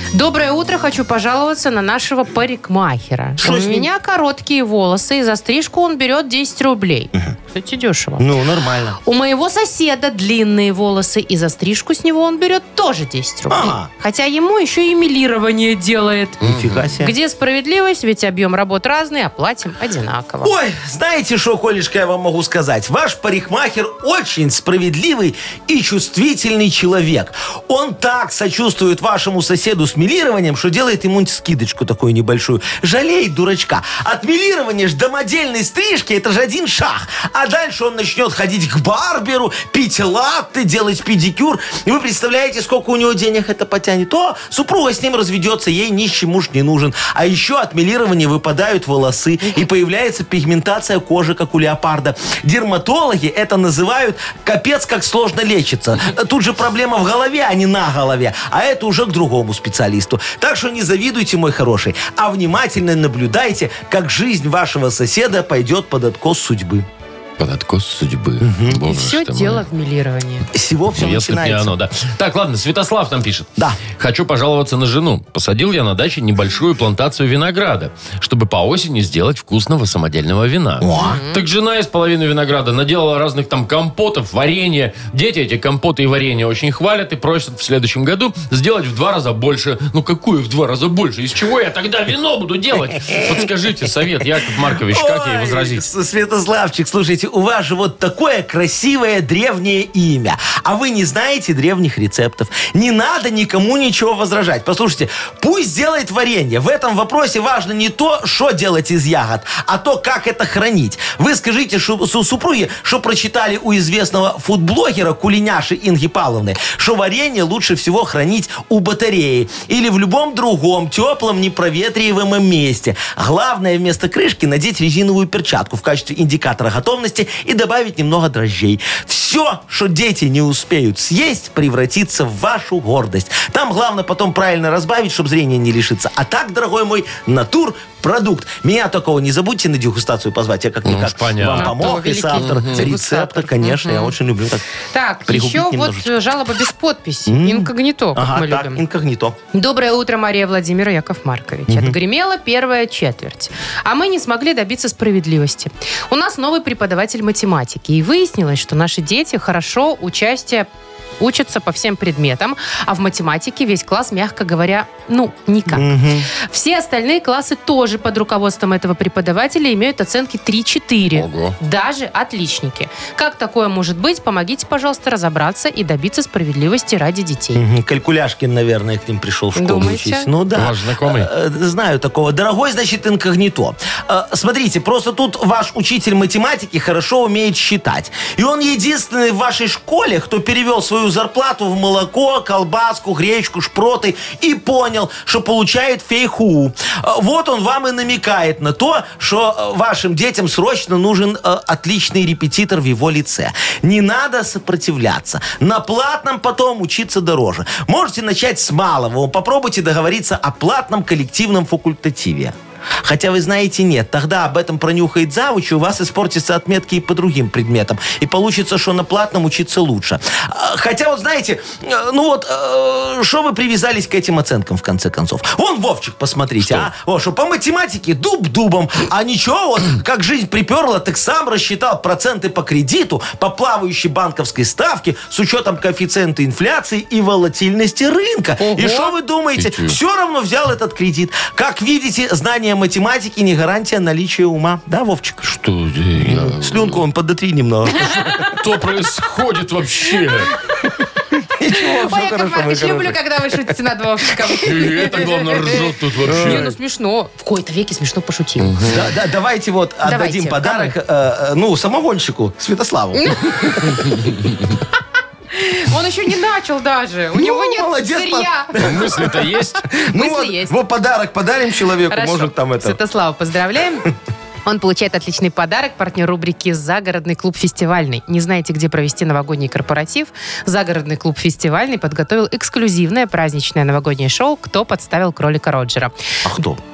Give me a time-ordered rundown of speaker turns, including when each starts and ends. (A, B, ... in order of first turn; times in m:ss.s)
0:00.1-0:08.3 A
0:03.4-0:03.9 B
0:08.2-0:09.0 B
0:09.0-0:16.4 A
0:13.5-0:13.9 B
0:16.4-0:16.9 C
0:16.4-0:17.1 B
0:17.0-0:20.6 A
0:20.4-1:06.9 B
1:07.4-1:09.6 C
1:08.4-1:08.8 B
1:08.8-1:10.5 A
1:10.5-1:11.8 B
1:11.0-1:35.8 C
1:20.8-1:21.2 B
1:21.0-1:21.4 A
1:34.7-2:24.6 B
2:20.8-2:21.8 C
2:21.6-2:24.1 A
2:22.3-2:22.9 C
2:24.9-2:28.8 A
2:25.3-2:26.2 B
2:27.3-2:29.4 B
2:29.5-2:40.7 A
2:31.7-2:32.0 B
2:41.2-2:57.6 A
2:45.7-2:46.3 B
2:51.1-2:51.6 C
2:57.6-4:05.5 B
2:59.6-3:00.3 A
3:00.5-3:01.3 C
3:46.6-3:46.9 C
3:58.6-3:59.1 A
3:59.6-4:00.0 C
4:05.4-4:07.0 C
4:06.2-4:08.5 B
4:08.0-4:08.6 A
4:08.5-4:10.5 C
4:11.4-4:13.2 B
4:11.7-4:18.8 A
4:14.6-4:16.7 C
4:16.2-4:16.8 B
4:18.6-4:19.0 C
4:18.8-4:24.2 B
4:20.0-4:21.0 A
4:23.2-4:24.2 A
4:25.5-4:28.9 A
4:27.3-4:33.0 B
4:28.8-4:29.8 C
4:30.0-4:30.8 A
4:32.1-4:34.1 A
4:34.6-4:46.1 A
4:46.4-4:46.8 B